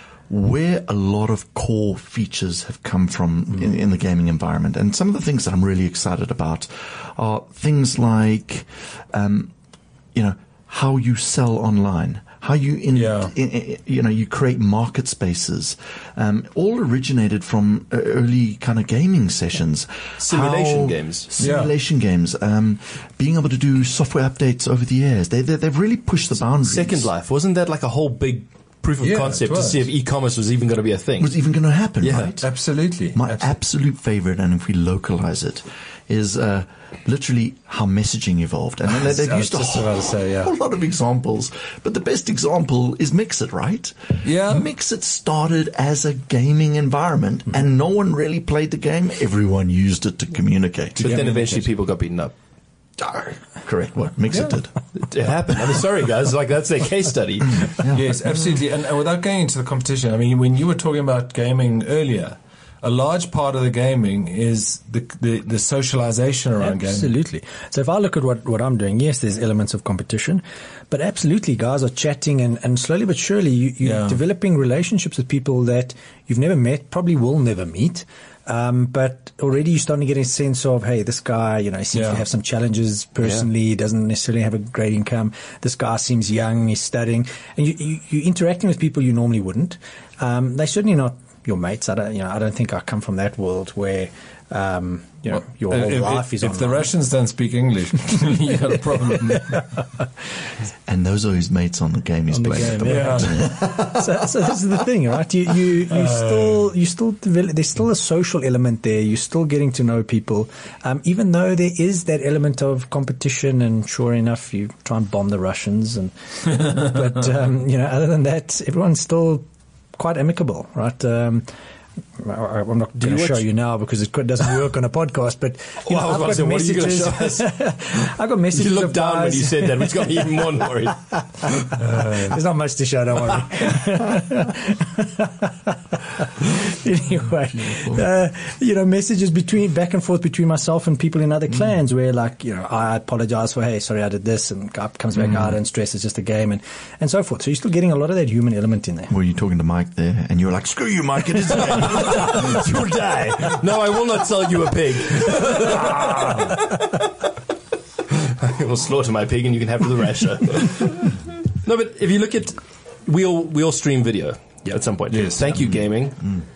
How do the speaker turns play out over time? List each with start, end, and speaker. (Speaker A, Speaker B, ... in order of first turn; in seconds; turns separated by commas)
Speaker A: 0.3-9.5, Speaker A: 10.1-27.1, Speaker B: 12.9-13.3, Speaker C: 20.2-21.3, Speaker B: 21.4-21.7, Speaker C: 26.6-31.3, Speaker B: 29.0-29.8, Speaker A: 31.2-32.5, Speaker C: 32.0-32.4, Speaker B: 32.4-33.5, Speaker A: 33.1-51.2, Speaker B: 38.9-40.5, Speaker B: 44.2-44.7, Speaker C: 51.0-52.3, Speaker B: 51.0-51.6, Speaker A: 53.0-54.8, Speaker B: 54.3-54.6, Speaker C: 55.0-57.8, Speaker A: 57.8-58.1, Speaker B: 57.9-67.1, Speaker D: 66.6-96.9, Speaker B: 73.8-74.2, Speaker B: 81.9-82.2, Speaker B: 95.4-99.7, Speaker A: 100.9-104.0, Speaker D: 102.3-119.5, Speaker B: 102.7-103.5, Speaker B: 105.9-106.6, Speaker D: 120.0-121.5, Speaker D: 122.2-130.2, Speaker C: 125.8-127.5, Speaker C: 128.5-131.0, Speaker D: 131.6-149.1, Speaker A: 149.1-152.6, Speaker C: 151.6-156.7, Speaker B: 155.6-156.6, Speaker C: 158.1-166.2, Speaker B: 165.1-165.6, Speaker A: 165.6-166.4